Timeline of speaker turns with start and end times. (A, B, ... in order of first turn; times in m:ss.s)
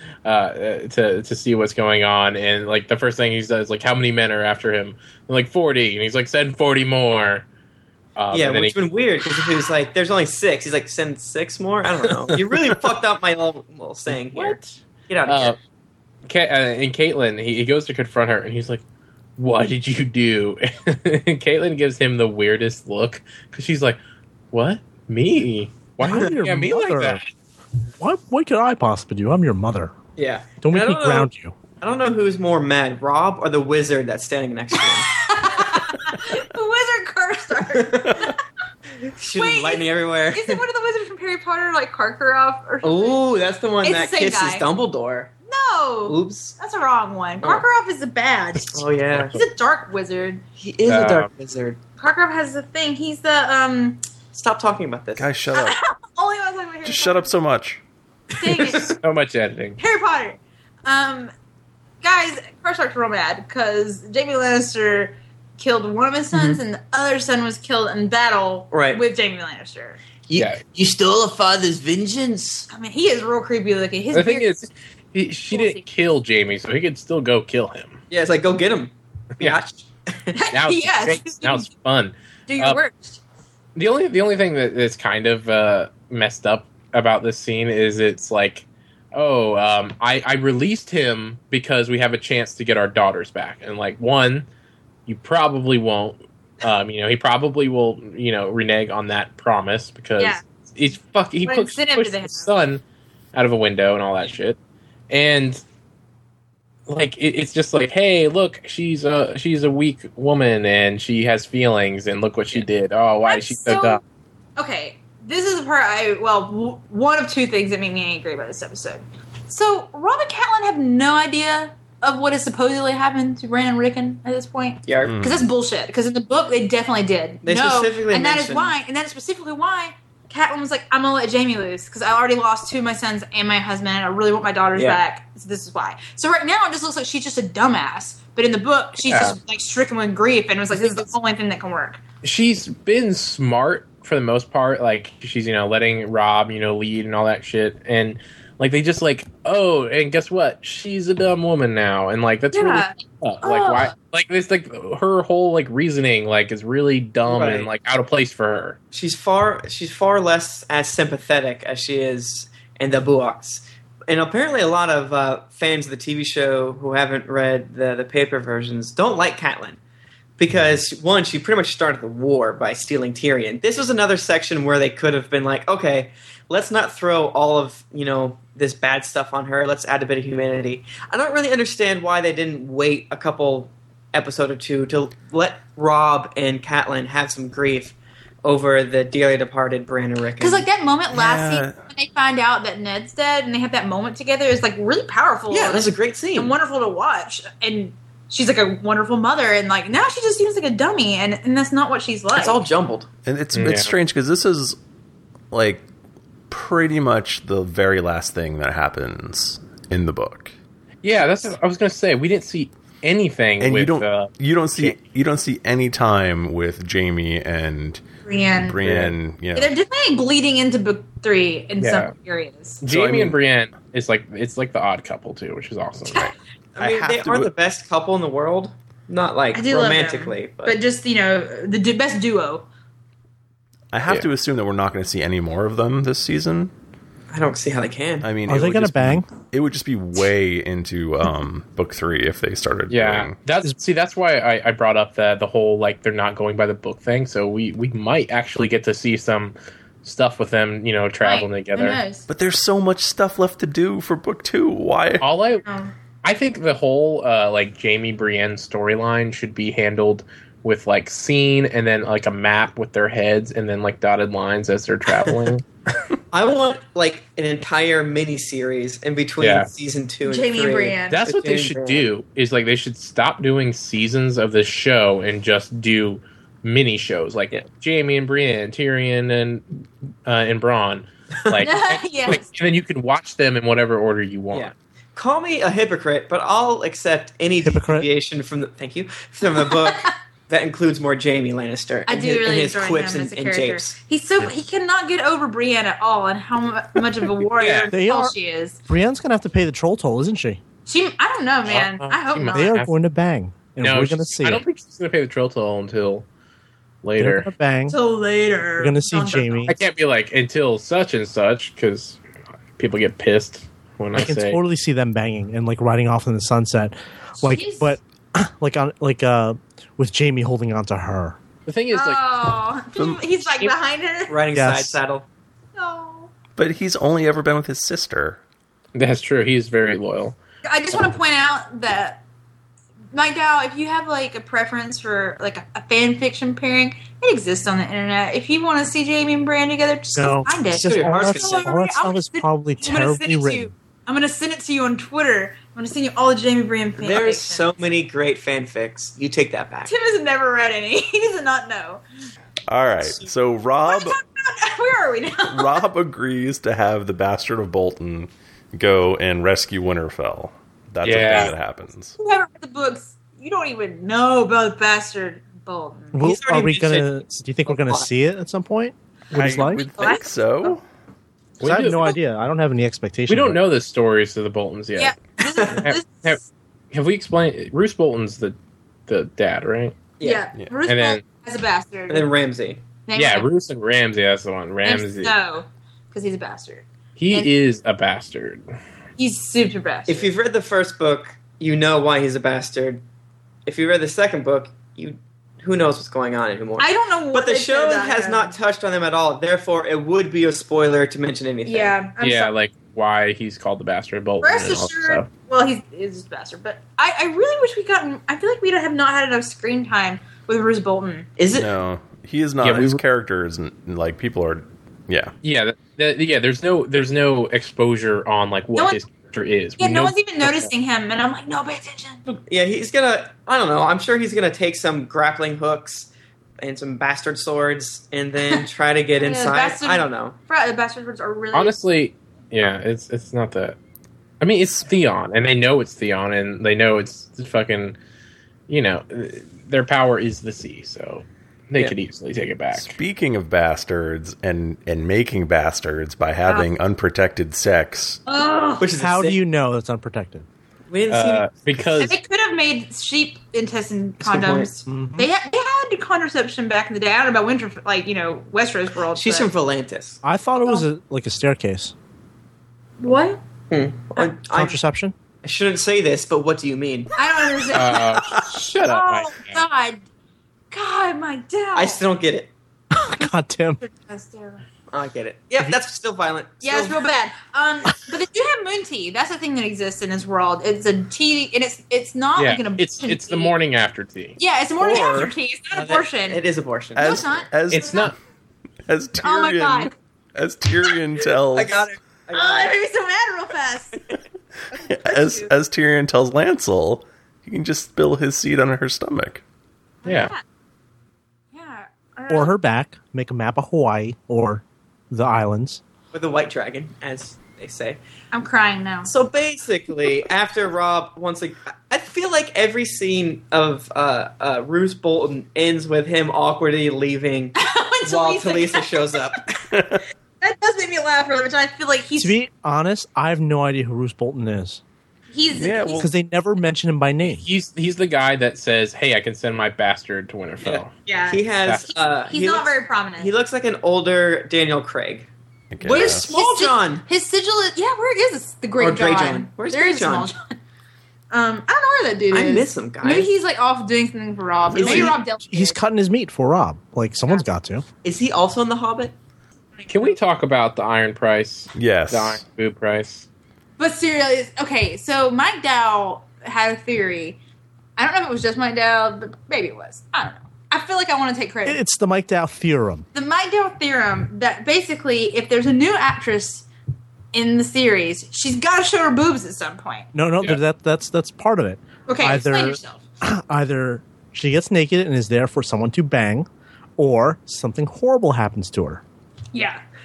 0:00.2-0:07.4 A
0:08.2-0:09.3 A
0:08.3-0:14.6 B
0:14.1-0:15.6 A
0:15.1-0:15.6 B
0:16.2-0:18.8 A
0:19.4-0:24.0 A
0:24.5-0:27.3 A
0:26.0-0:27.2 C
0:28.0-0:30.0 C
0:30.2-0:31.3 B
0:30.6-0:31.6 C
0:31.8-0:35.2 B
0:34.8-0:38.4 D
0:37.7-0:38.3 B
0:39.1-0:40.6 B
0:39.3-0:43.2 D
0:42.8-0:45.3 B
0:43.8-0:44.7 D
0:45.5-0:50.4 D
0:46.1-0:46.6 B
0:48.7-0:49.4 B
0:50.6-0:51.8 B
0:50.9-0:51.3 A
0:52.0-0:54.0 D
0:54.3-0:55.3 B
0:55.2-0:55.8 E
0:55.5-0:57.3 D
0:56.8-0:57.8 E
0:58.4-0:59.0 D
0:58.4-0:59.0 B
0:58.8-0:59.8 A
0:59.8-1:01.3 D
1:02.0-1:10.0 D
1:06.3-1:06.6 B
1:08.7-1:09.0 B
1:10.3-1:12.7 B
1:10.4-1:10.6 A
1:12.7-1:14.7 D
1:14.1-1:18.0 A
1:15.5-1:15.8 D
1:18.1-1:20.4 B
1:20.3-1:21.7 D
1:20.5-1:22.8 A
1:22.5-1:23.2 D
1:23.8-1:34.5 A
1:35.1-1:42.8 A
1:41.4-1:42.5 D
1:43.3-1:44.6 A
1:45.1-1:45.6 A
1:46.9-1:54.0 A
1:53.3-1:54.0 D
1:54.6-2:22.0 D
2:04.8-2:05.2 B
2:05.0-2:05.4 E
2:07.4-2:08.7 B
2:14.8-2:15.0 B
2:19.1-2:19.4 A
2:20.8-2:21.1 A
2:22.2-2:38.8 A
2:32.5-2:33.9 D
2:37.3-2:37.7 B
2:38.9-2:49.8 B
2:50.4-3:10.6 B
3:10.4-3:22.6 D
3:11.1-3:11.8 E
3:15.5-3:16.6 B
3:22.3-3:23.1 B
3:23.3-3:24.8 E
3:23.5-3:23.9 A
3:25.5-3:25.8 E
3:26.5-3:30.5 E
3:31.0-3:35.0 A
3:33.6-3:38.0 E
3:38.2-3:38.8 D
3:38.6-3:39.7 E
3:38.8-3:39.1 A
3:39.5-3:42.8 D
3:41.8-3:42.1 A
3:42.8-3:46.3 A
3:42.9-3:43.4 E
3:46.8-3:47.5 E
3:46.8-3:50.8 B
3:49.5-3:52.7 D
3:53.9-3:56.7 E
3:57.3-3:58.3 B
3:58.2-4:03.4 E
3:58.5-3:59.3 C
4:02.9-4:12.0 A
4:11.2-4:12.3 D
4:12.3-4:15.2 E
4:15.2-4:15.6 A
4:15.6-4:15.9 D
4:16.2-4:25.6 A
4:26.3-4:32.1 B
4:29.4-4:29.7 A
4:30.2-4:31.2 D
4:31.1-4:39.7 A
4:40.3-4:44.7 A
4:41.6-4:42.5 D
4:44.5-4:54.0 B
4:47.6-4:48.1 C
4:49.6-4:50.1 D
4:52.1-4:58.8 D
4:57.6-4:57.9 A
4:57.9-4:58.4 C
4:58.9-5:00.6 C
5:00.9-5:02.8 D
5:01.7-5:02.9 A
5:02.5-5:04.6 C
5:03.8-5:06.2 A
5:07.0-5:07.5 A
5:07.2-5:08.0 C
5:07.9-5:09.7 D
5:08.8-5:09.8 C
5:09.7-5:12.2 A
5:12.8-5:14.6 A
5:14.2-5:21.4 C
5:17.4-5:18.0 D
5:21.7-5:22.2 A
5:21.9-5:24.4 D
5:23.0-5:23.2 E
5:24.3-5:25.3 B
5:24.5-5:25.0 C
5:25.8-5:26.3 D
5:26.6-5:28.4 E
5:29.0-5:30.4 A
5:30.6-5:32.2 D
5:33.1-5:47.7 D
5:40.2-5:43.7 C
5:40.7-5:41.8 B
5:47.0-5:49.9 B
5:49.9-5:52.0 D
5:52.7-5:54.2 E
5:53.9-5:55.8 D
5:55.5-6:02.2 E
6:01.0-6:01.5 A
6:02.2-6:06.2 D
6:06.1-6:09.8 C
6:06.2-6:08.1 B
6:09.3-6:10.8 E
6:09.9-6:10.8 D
6:11.6-6:12.2 A
6:11.6-6:13.6 C
6:13.3-6:15.2 A
6:15.0-6:16.4 D
6:15.4-6:15.8 B
6:15.8-6:16.4 A
6:16.9-6:18.6 A
6:19.1-6:20.0 A
6:20.2-6:20.5 B
6:20.2-6:22.3 D
6:20.9-6:21.2 A
6:22.1-6:22.8 B
6:23.1-6:23.5 D
6:23.2-6:25.4 A
6:24.8-6:27.5 D
6:27.2-6:28.6 A
6:29.2-6:30.3 D
6:30.1-6:33.0 B
6:33.7-6:42.0 B
6:36.8-6:38.6 D
6:41.6-6:42.5 D
6:42.2-6:45.3 A
6:44.4-6:51.3 D
6:51.4-6:51.7 B
6:51.5-6:55.3 E
6:52.6-6:53.0 A
6:55.4-7:00.7 A
6:58.8-6:59.0 D
6:59.8-7:02.2 D
7:02.3-7:10.4 B
7:09.2-7:11.7 D
7:11.5-7:13.8 A
7:14.4-7:18.0 A
7:18.7-7:23.0 A
7:22.8-7:28.2 E
7:28.3-7:28.9 D
7:28.8-7:29.4 B
7:29.0-7:30.5 C
7:30.9-7:31.5 B
7:31.1-7:32.2 A
7:32.0-7:39.5 D
7:34.2-7:34.7 B
7:34.9-7:35.3 C
7:39.1-7:40.2 B
7:40.2-7:41.9 C
7:43.0-7:43.4 D
7:43.7-7:44.8 B
7:44.5-7:45.2 C
7:45.4-7:47.2 B
7:47.2-7:50.0 D
7:47.7-7:49.6 A
7:50.7-7:52.0 D
7:51.8-7:52.5 B
7:53.0-7:53.8 C
7:53.1-7:54.6 D
7:54.9-7:57.0 B
7:56.6-8:03.5 D
8:02.4-8:04.4 A
8:04.4-8:06.4 D
8:04.8-8:07.3 B
8:07.0-8:08.1 D
8:07.0-8:08.1 E
8:07.7-8:08.1 A
8:08.9-8:11.8 E
8:09.2-8:09.9 D
8:11.5-8:12.8 B
8:12.3-8:14.0 D
8:14.8-8:19.4 E
8:14.8-8:15.5 D
8:20.0-8:20.4 D
8:20.0-8:20.3 A
8:21.5-8:22.5 D
8:22.3-8:25.8 C
8:26.1-8:28.0 B
8:28.3-8:29.1 D
8:29.1-8:39.6 B
8:37.6-8:39.3 D
8:39.7-8:40.0 E
8:40.4-8:42.4 D
8:42.2-8:44.8 C
8:45.3-8:46.1 D
8:45.5-8:46.1 E
8:46.0-8:47.4 C
8:47.3-8:50.9 A
8:50.6-8:55.3 B
8:51.1-8:53.3 D
8:55.7-8:56.3 E
8:55.8-8:57.0 B
8:55.9-9:00.6 D
8:58.8-9:00.3 B
9:01.3-9:05.8 D
9:02.3-9:03.3 B
9:04.7-9:05.2 B
9:04.9-9:07.8 C
9:08.0-9:09.1 B
9:09.8-9:10.2 D
9:09.9-9:13.3 A
9:11.8-9:12.4 E
9:13.8-9:17.4 D
9:18.0-9:21.8 D
9:21.7-9:23.1 C
9:23.1-9:26.7 D
9:27.3-9:30.1 D
9:30.1-9:39.0 C
9:32.1-9:33.0 D
9:39.5-9:39.8 D